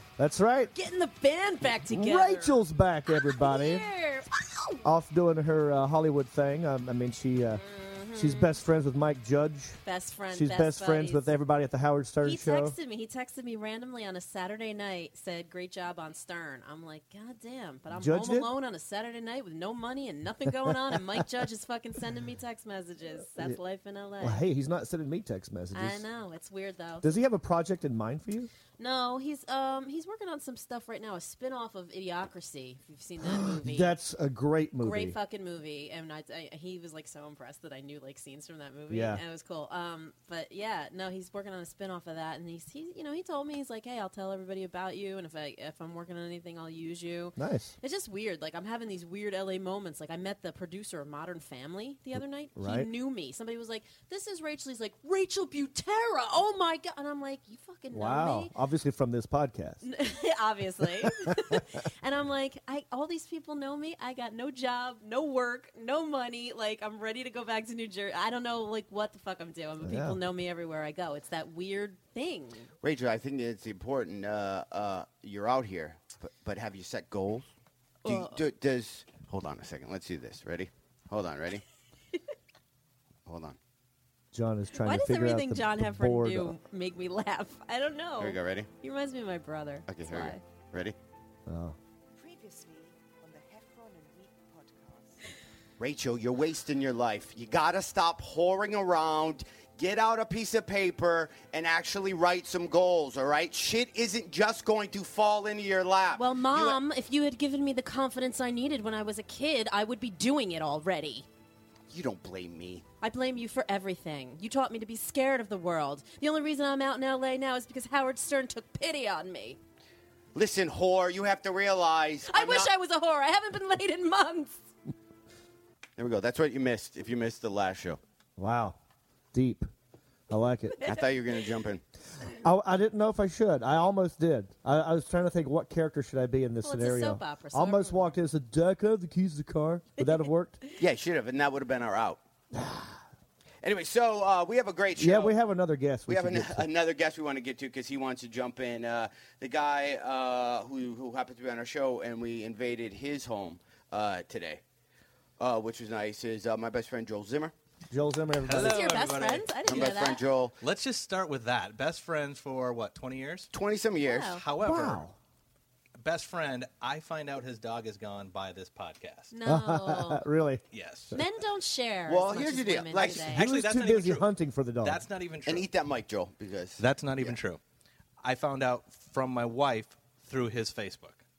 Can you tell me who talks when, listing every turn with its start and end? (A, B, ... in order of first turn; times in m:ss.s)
0:00.2-0:00.7 A
0:00.7-0:02.6 B
0:01.6-0:03.8 A
0:03.2-0:04.8 B
0:04.8-0:07.6 A
0:07.5-0:08.6 B
0:08.1-0:09.8 A
0:09.8-0:11.3 B
0:10.3-0:12.7 A
0:12.2-0:24.4 B
0:17.9-0:18.5 A
0:24.2-0:26.0 A
0:25.7-0:27.2 B
0:27.0-0:28.5 A
0:28.8-0:33.9 B
0:33.3-0:35.2 A
0:34.8-0:58.5 B
0:38.9-0:39.2 A
0:47.4-0:47.7 A
0:52.6-0:52.9 A
0:57.9-0:59.8 A
0:59.8-1:12.7 B
1:01.0-1:01.6 A
1:09.8-1:10.2 A
1:12.8-1:17.4 C
1:18.0-1:18.4 B
1:18.0-1:21.6 C
1:23.2-1:23.6 C
1:24.3-1:26.6 A
1:24.7-1:30.4 B
1:28.2-1:28.7 C
1:29.9-1:31.0 C
1:31.4-1:31.8 A
1:32.2-1:35.3 D
1:35.8-1:46.8 C
1:46.2-1:51.2 B
1:51.9-1:52.8 C
1:53.0-1:59.6 B
2:00.3-2:02.7 C
2:02.3-2:04.6 B
2:06.0-2:08.0 C
2:08.4-2:08.8 A
2:09.3-2:09.7 A
2:10.3-2:10.8 A
2:10.7-2:11.1 B
2:10.8-2:11.8 C
2:12.4-2:20.6 A
2:16.6-2:18.1 B
2:20.8-2:22.2 C
2:22.5-2:23.0 A
2:23.6-2:25.3 C
2:25.0-2:26.7 A
2:26.1-2:34.6 C
2:35.4-2:37.5 C
2:37.9-2:39.0 A
2:38.4-2:39.9 E
2:38.5-2:40.2 B
2:39.6-2:40.5 C
2:40.6-2:43.5 E
2:43.5-2:44.4 C
2:44.0-2:44.4 B
2:44.4-2:45.0 E
2:44.6-2:45.1 A
2:46.0-2:49.3 E
2:49.3-2:50.2 B
2:49.4-2:51.2 A
2:50.7-2:51.1 E
2:51.1-2:53.4 B
2:52.1-2:53.3 C
2:53.0-2:54.3 E
2:53.2-2:55.0 A
2:54.8-2:55.7 E
2:55.4-2:57.4 C
2:56.8-2:57.6 E
2:58.2-3:01.2 E